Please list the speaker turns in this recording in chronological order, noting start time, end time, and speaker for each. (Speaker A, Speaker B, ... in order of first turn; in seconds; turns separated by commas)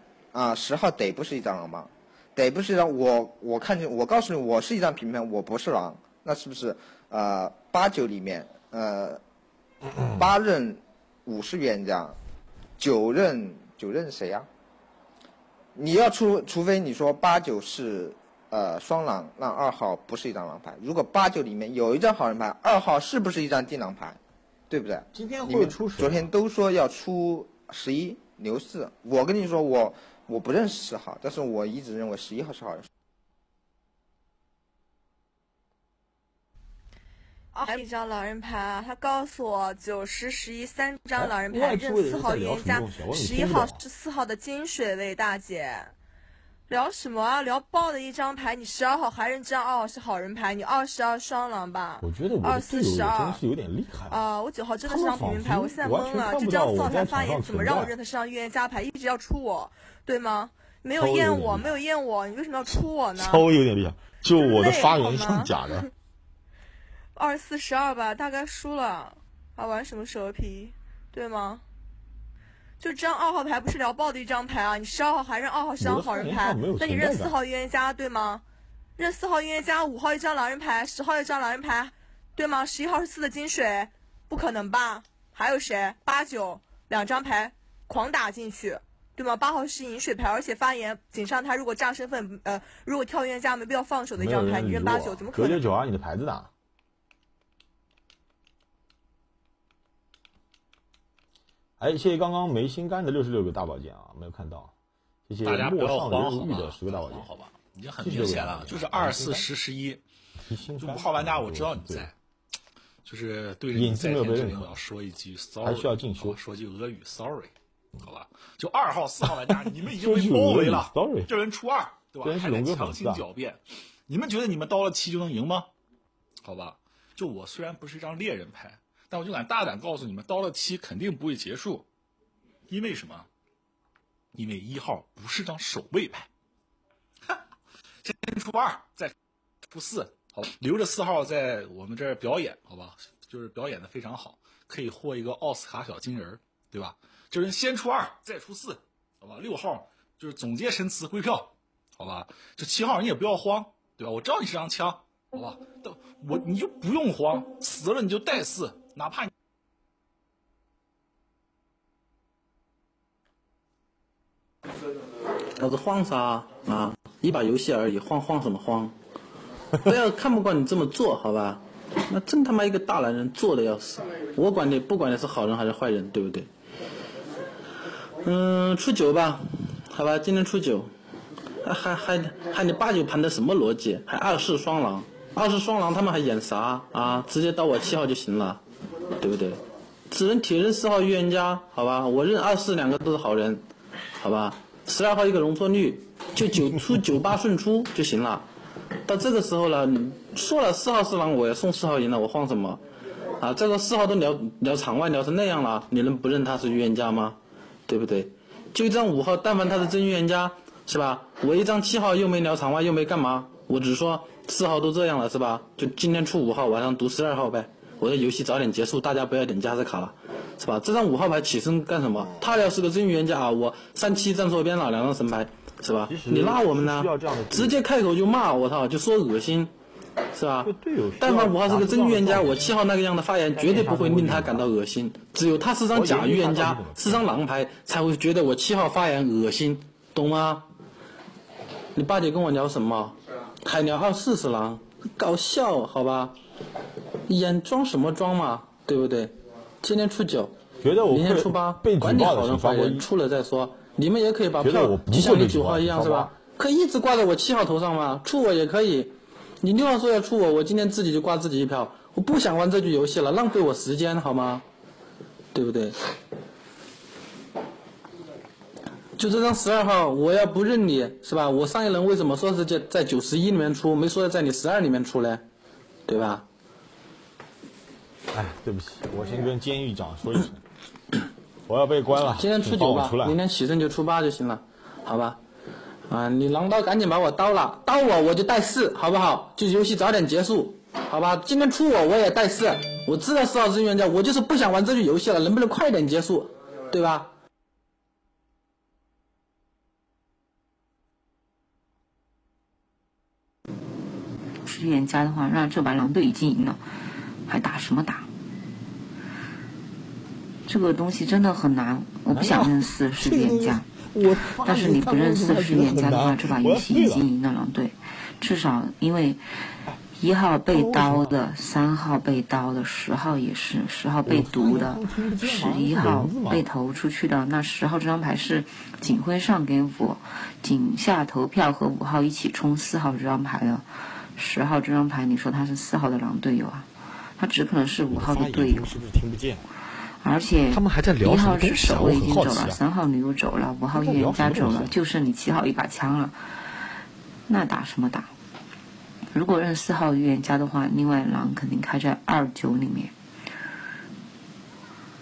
Speaker A: 0.3-9.2, Speaker A: 10.2-12.2, Speaker A: 12.8-14.5, Speaker A: 15.7-32.9, Speaker B: 25.1-26.3, Speaker C: 37.5-45.9, Speaker B: 41.1-43.8, Speaker C: 46.7-53.4, Speaker B: 52.0-54.2, Speaker C: 54.1-63.5, Speaker B: 54.8-57.9, Speaker B: 61.0-61.8, Speaker B: 62.7-65.9, Speaker C: 64.3-65.8, Speaker C: 67.1-71.6, Speaker C: 72.8-78.4, Speaker B: 75.8-77.4, Speaker C: 79.0-95.6, Speaker B: 94.1-96.5, Speaker B: 101.8-104.7, Speaker B: 105.3-107.3, Speaker D: 105.4-110.0, Speaker B: 108.0-109.5, Speaker B: 110.5-112.1, Speaker D: 110.8-112.1, Speaker D: 113.0-125.7, Speaker B: 113.7-114.8, Speaker B: 115.6-116.4, Speaker B: 119.5-121.3, Speaker B: 122.2-123.3, Speaker D: 126.4-131.9, Speaker D: 132.7-133.3, Speaker D: 134.3-136.3, Speaker D: 138.0-139.1, Speaker D: 139.7-159.3, Speaker E: 165.6-168.9, Speaker E: 169.8-176.5, Speaker E: 178.2-180.9, Speaker E: 181.6-188.6, Speaker E: 189.2-193.6, Speaker E: 194.2-198.4, Speaker E: 199.1-202.8, Speaker E: 203.4-229.7, Speaker B: 222.2-222.5, Speaker B: 226.1-227.8, Speaker E: 230.3-240.7, Speaker B: 230.6-232.7, Speaker B: 233.6-234.7, Speaker B: 235.9-237.4, Speaker E: 241.9-246.4, Speaker E: 247.3-250.6, Speaker B: 250.8-253.1, Speaker E: 251.1-264.6, Speaker B: 254.6-256.3, Speaker E: 265.5-266.0, Speaker E: 269.2-275.4, Speaker E: 276.1-276.4, Speaker B: 278.3-280.6, Speaker B: 281.7-283.4, Speaker E: 282.3-285.4, Speaker E: 286.1-297.3, Speaker F: 304.6-306.8, Speaker F: 307.4-308.3, Speaker F: 310.7-313.9, Speaker B: 312.3-317.3, Speaker F: 314.6-319.4, Speaker F: 320.2-338.9, Speaker B: 320.7-321.4, Speaker B: 324.2-326.6, Speaker B: 338.1-339.6, Speaker F: 340.2-346.4, Speaker B: 340.7-342.8, Speaker B: 343.9-344.9, Speaker F: 347.5-348.3, Speaker F: 349.3-353.1